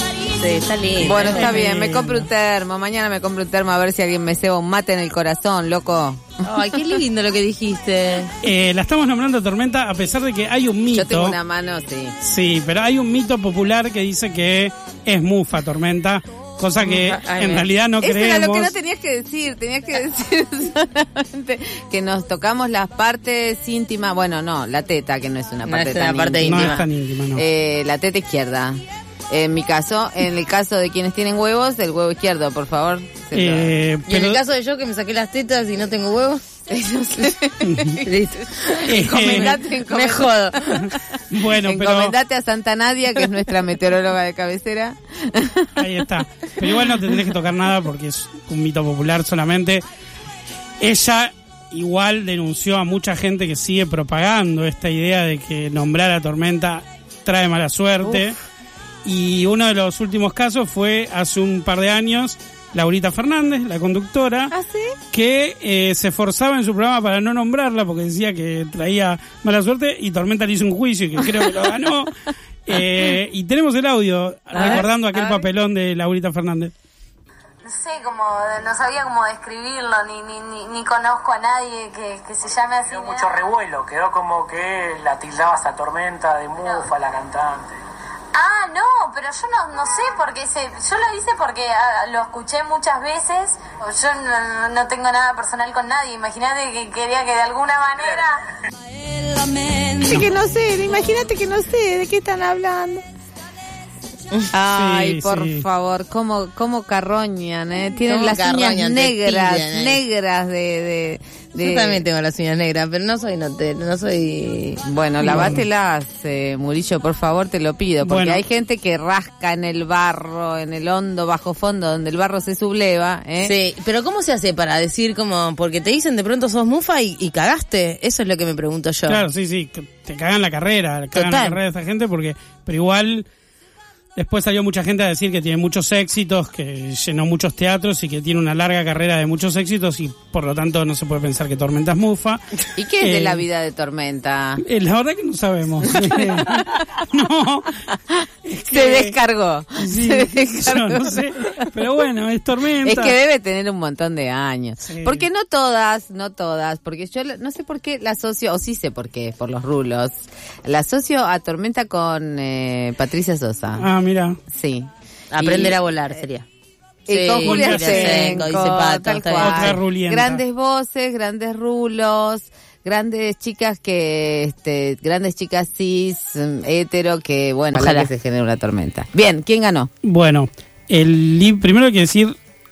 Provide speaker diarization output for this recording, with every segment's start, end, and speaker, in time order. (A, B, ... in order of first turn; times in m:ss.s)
0:00.3-0:01.6 A
0:01.0-0:07.0 B
0:01.1-0:02.2 C
0:06.4-0:08.3 A
0:08.4-0:11.4 C
0:10.9-0:12.1 B
0:12.2-0:18.7 C
0:16.8-0:17.6 A
0:18.0-0:33.7 B
0:25.6-0:26.8 A
0:26.4-0:27.4 C
0:33.3-0:34.4 C
0:34.1-0:36.4 A
0:36.7-0:38.0 B
0:37.6-0:37.9 C
0:38.0-0:40.6 A
0:38.7-0:40.8 B
0:38.9-0:39.5 C
0:41.3-0:42.1 C
0:41.6-0:45.7 B
0:45.8-0:49.8 C
0:50.8-0:58.3 C
0:59.0-1:04.5 C
1:04.5-1:05.0 B
1:05.1-1:12.1 C
1:12.7-1:16.7 C
1:14.5-1:14.8 B
1:17.6-1:23.3 D
1:22.8-1:27.7 E
1:28.3-1:38.4 D
1:40.0-1:43.0 B
1:44.5-1:52.0 B
1:44.7-1:45.6 C
1:48.0-1:50.0 A
1:51.6-1:55.6 A
1:54.8-2:03.5 B
1:55.3-1:55.6 C
1:58.0-1:58.4 C
2:03.4-2:09.2 A
2:09.1-2:13.2 C
2:11.1-2:11.6 A
2:14.2-2:22.4 C
2:22.8-2:24.6 B
2:23.0-2:23.4 C
2:24.6-2:27.7 C
2:28.4-2:29.1 C
2:28.7-2:31.7 B
2:29.8-2:33.1 C
2:32.8-2:43.8 B
2:34.8-2:35.2 C
2:43.8-2:44.4 C
2:44.5-2:45.8 B
2:45.3-2:46.4 A
2:47.0-2:59.9 B
2:47.1-2:49.8 A
2:47.4-2:48.5 C
2:49.3-2:50.4 C
2:57.7-2:58.1 A
3:00.0-3:02.4 C